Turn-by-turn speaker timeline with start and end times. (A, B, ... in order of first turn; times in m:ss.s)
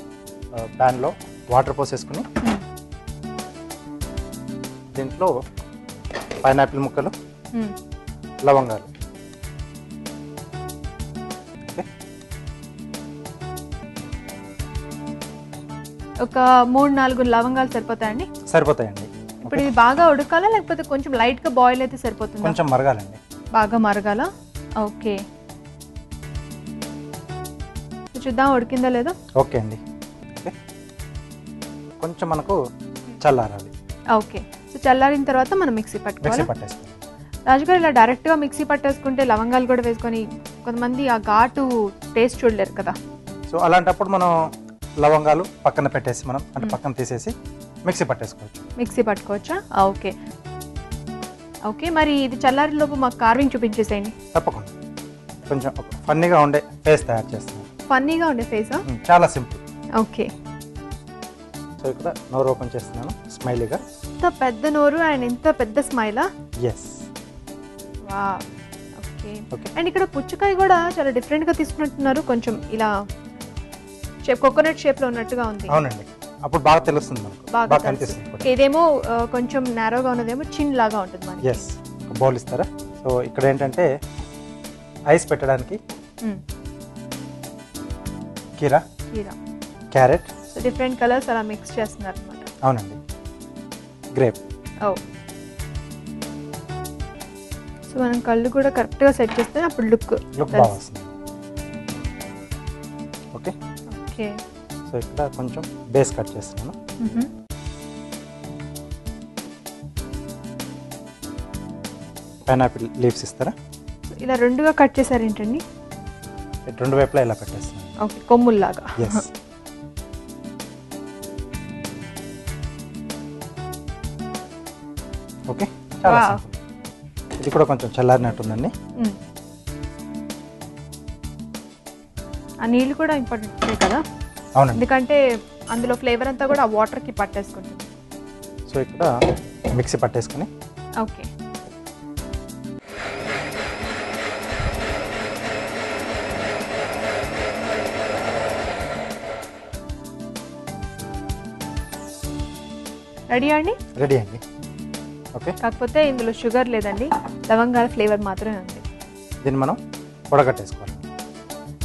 0:00.6-0:02.2 A
0:04.9-0:05.3 A
0:06.4-0:07.1 A
0:08.4-0:08.9 A
0:16.2-0:18.3 B
0:18.5-0:19.7 A
0:19.4-0:22.6 B
0:22.4-0:23.2 A
0:23.5-0:24.3 B
0:24.8-0:25.2 B
0:28.1-0:29.2 B
0:29.4-0:29.8 A
0:32.0-0:32.6 A
0:33.2-0:33.7 A
0:34.1-0:36.5 B
0:36.2-0:37.0 A
0:37.5-0:42.9 B
0:43.5-0:44.3 A
0:45.0-0:47.3 A
0:47.8-0:48.6 A
0:48.8-0:50.1 B
0:51.7-0:54.1 B
0:54.3-0:54.7 A
0:55.5-0:57.7 A
0:57.9-0:58.8 B
0:58.8-0:59.6 A
1:00.0-1:00.3 B
1:01.8-1:03.8 A
1:04.2-1:06.2 B
1:06.6-1:06.9 A
1:08.1-1:08.4 B
1:09.0-1:12.9 B
1:14.3-1:15.8 B
1:15.7-1:18.5 A
1:17.5-1:21.6 B
1:21.4-1:23.9 A
1:25.1-1:25.8 A
1:28.6-1:28.8 A
1:29.1-1:29.4 B
1:29.9-1:30.3 A
1:30.5-1:32.5 B
1:32.6-1:33.0 A
1:37.9-1:40.8 B
1:40.4-1:41.1 A
1:43.9-1:44.3 B
1:44.9-1:46.7 A
1:47.0-1:47.3 B
1:52.5-1:53.5 A
1:54.2-1:55.6 B
1:56.7-1:57.9 A
1:58.0-1:59.2 B
1:59.0-1:59.3 A
2:05.5-2:06.5 A
2:06.0-2:06.4 B
2:07.4-2:08.7 A
2:12.6-2:14.0 B
2:14.7-2:15.2 B
2:15.7-2:17.9 B
2:18.7-2:19.1 A
2:19.8-2:20.5 A
2:21.0-2:21.3 B
2:33.3-2:33.8 B
2:34.0-2:34.4 A
2:35.6-2:38.8 B
2:39.4-2:39.8 A
2:40.3-2:41.0 A